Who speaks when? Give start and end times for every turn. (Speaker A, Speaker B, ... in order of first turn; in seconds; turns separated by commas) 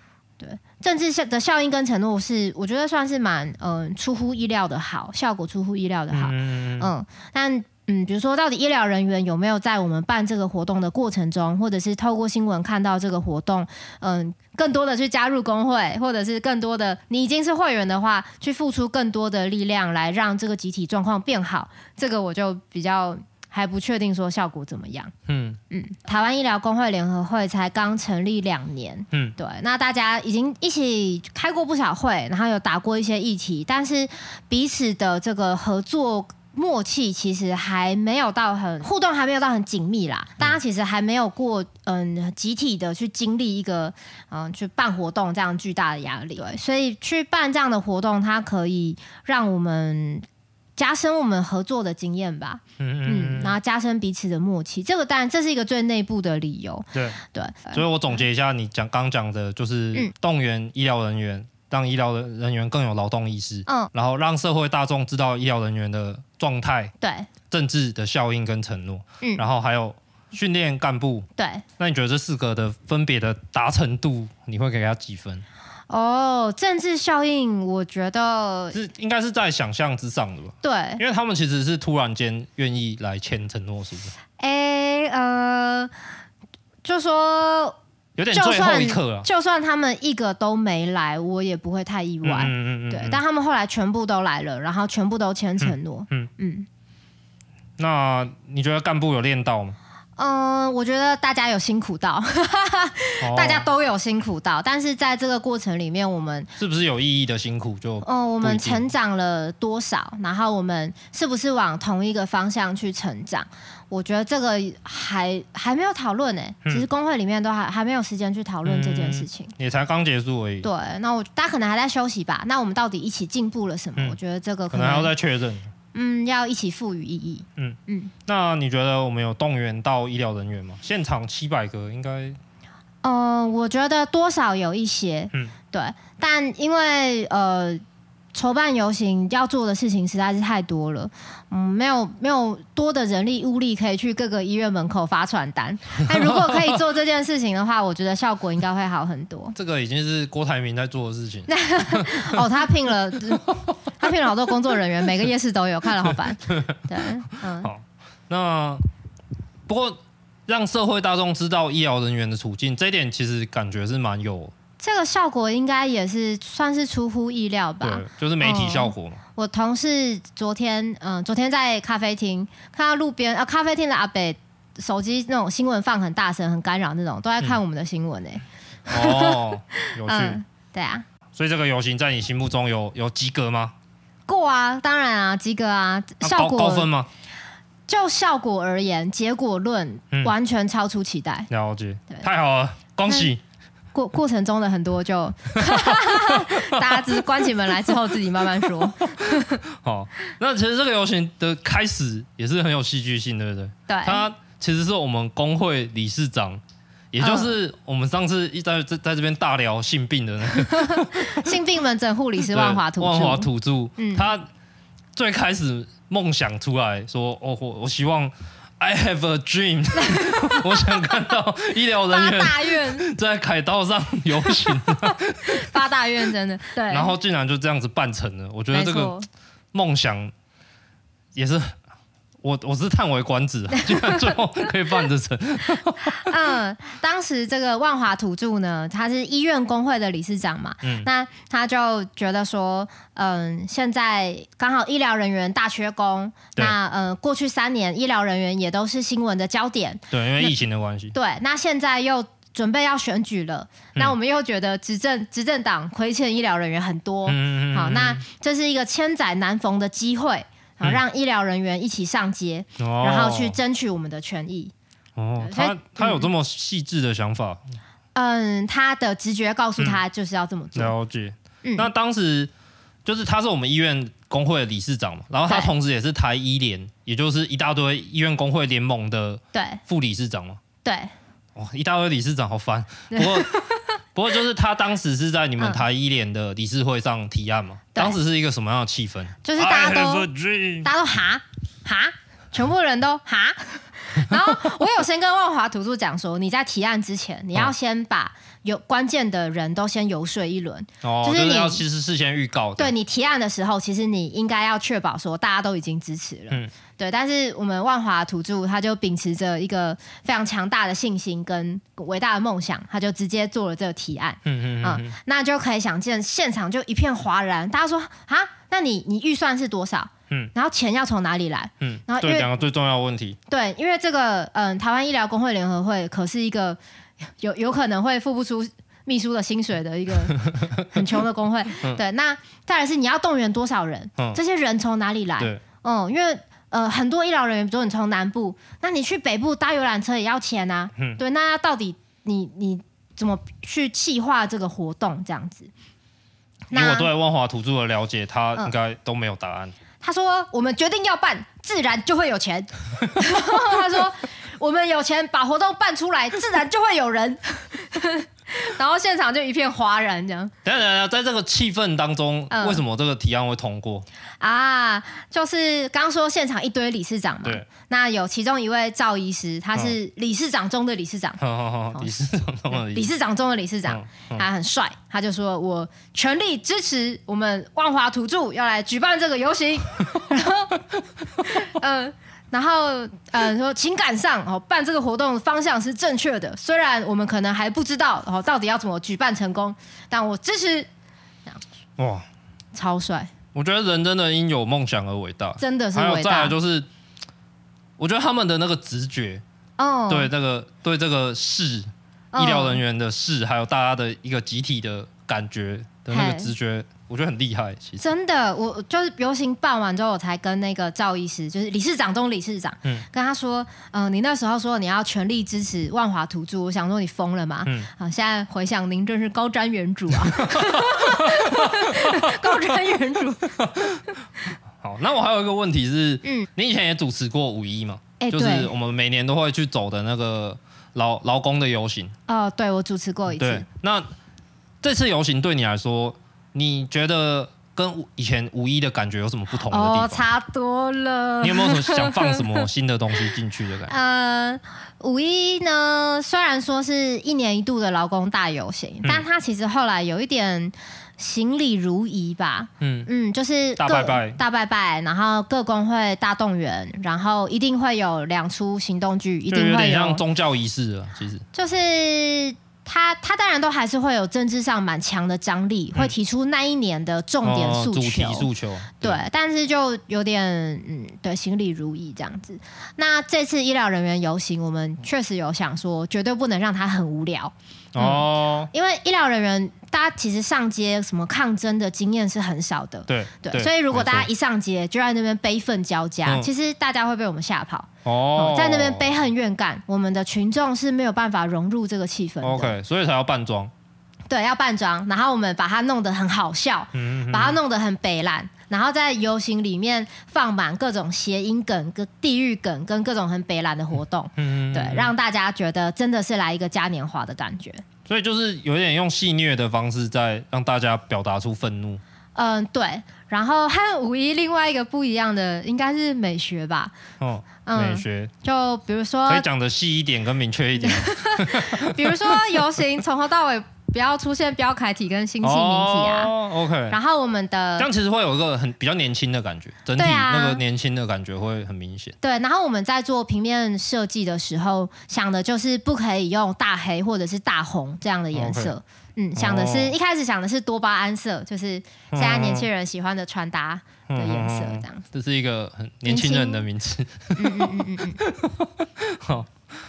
Speaker A: 0.4-25.1, Speaker B: 6.1-6.9, Speaker B: 25.3-25.6, Speaker A: 25.7-50.2, Speaker A: 50.8-58.2, Speaker B: 52.8-53.6, Speaker B: 57.7-66.9, Speaker A: 67.0-67.3, Speaker B: 67.5-71.3, Speaker A: 71.4-71.6, Speaker B: 71.8-75.5, Speaker A: 75.9-78.8, Speaker B: 78.7-84.1, Speaker A: 80.6-81.0, Speaker A: 84.4-85.9, Speaker A: 86.8-87.8, Speaker B: 88.2-89.3, Speaker A: 88.3-96.7, Speaker B: 92.2-93.2, Speaker B: 95.6-96.3, Speaker B: 97.8-99.8, Speaker A: 100.2-106.5, Speaker B: 103.2-103.7, Speaker B: 106.6-108.9, Speaker A: 108.0-119.5, Speaker B: 118.7-120.7, Speaker A: 120.6-125.1, Speaker B: 124.7-125.7, Speaker A: 125.9-128.1, Speaker B: 127.6-132.4, Speaker A: 133.0-137.8, Speaker A: 138.3-149.6, Speaker B: 146.1-146.8, Speaker B: 149.6-152.5, Speaker A: 151.5-157.7, Speaker B: 157.6-158.8, Speaker B: 159.7-164.5, Speaker A: 164.8-181.1, Speaker B: 167.8-169.2, Speaker B: 178.9-180.4, Speaker B: 181.3-183.7, Speaker A: 184.3-186.9, Speaker B: 186.2-187.1, Speaker A: 187.9-191.5, Speaker B: 191.5-193.4, Speaker A: 193.9-199.6, Speaker B: 195.6-197.2, Speaker B: 199.2-211.5, Speaker A: 203.9-204.3, Speaker A: 207.2-207.6, Speaker A: 210.6-214.3, Speaker B: 212.5-214.5, Speaker B: 215.2-225.8, Speaker A: 220.0-221.1, Speaker A: 222.1-223.1, Speaker A: 224.4-227.1, Speaker B: 226.9-229.2, Speaker A: 228.7-229.3, Speaker B: 229.7-230.3, Speaker B: 231.3-231.8, Speaker B: 232.4-236.3, Speaker A: 233.9-234.3, Speaker A: 236.1-250.6, Speaker B: 250.1-251.2, Speaker A: 251.1-264.7, Speaker B: 257.3-258.2, Speaker B: 262.8-263.6, Speaker B: 265.2-267.6, Speaker A: 265.4-266.3, Speaker A: 268.1-270.9, Speaker B: 270.8-272.5, Speaker A: 271.6-271.9, Speaker B: 273.1-280.6, Speaker A: 279.5-279.8, Speaker A: 280.8-281.1, Speaker B: 281.6-290.9, Speaker A: 283.1-283.9, Speaker A: 289.4-290.3, Speaker A: 290.8-301.8, Speaker B: 301.0-302.9, Speaker A: 302.8-322.5, Speaker B: 314.4-315.1, Speaker B: 321.8-323.4, Speaker A: 323.5-326.8, Speaker A: 327.4-345.7, Speaker B: 330.5-331.0, Speaker A: 346.7-347.1, Speaker B: 346.7-349.8, Speaker A: 350.0-360.5, Speaker B: 360.6-364.1, Speaker A: 362.5-362.8, Speaker A: 364.4-371.4, Speaker B: 371.4-373.1, Speaker A: 371.9-380.8, Speaker B: 373.9-374.4, Speaker A: 381.4-390.9, Speaker B: 392.0-392.3, Speaker A: 392.7-393.3, Speaker B: 393.5-396.9, Speaker A: 395.6-396.6, Speaker B: 398.0-399.4, Speaker A: 399.8-400.3, Speaker B: 400.1-408.0, Speaker A: 402.3-402.8, Speaker A: 406.1-406.5, Speaker A: 408.0-423.7, Speaker B: 420.2-422.6, Speaker B: 423.6-424.0, Speaker B: 424.8-432.1, Speaker A: 428.2-428.7, Speaker A: 432.3-433.7, Speaker B: 433.3-434.1, Speaker B: 434.8-440.2, Speaker A: 439.7-442.6, Speaker B: 441.4-443.9, Speaker A: 443.9-460.2, Speaker B: 452.8-453.1, Speaker B: 453.8-454.4, Speaker B: 459.5-461.4, Speaker A: 461.5-468.5, Speaker B: 467.4-469.2, Speaker A: 469.0-492.8, Speaker B: 477.9-478.7, Speaker B: 483.1-484.3, Speaker B: 488.1-489.1, Speaker B: 492.4-493.7, Speaker A: 494.3-507.8, Speaker B: 496.9-497.6, Speaker B: 504.4-505.1, Speaker B: 508.1-512.0, Speaker A: 512.4-516.9, Speaker B: 517.2-518.3, Speaker A: 517.7-519.5, Speaker B: 519.3-522.6, Speaker A: 520.8-526.3, Speaker B: 525.4-527.0, Speaker A: 526.9-527.9, Speaker B: 527.8-532.1, Speaker A: 530.0-530.6, Speaker A: 532.2-545.0, Speaker B: 538.3-538.8, Speaker B: 539.4-540.0, Speaker B: 542.1-542.7, Speaker B: 544.1-549.5, Speaker A: 546.1-546.7, Speaker A: 547.4-548.2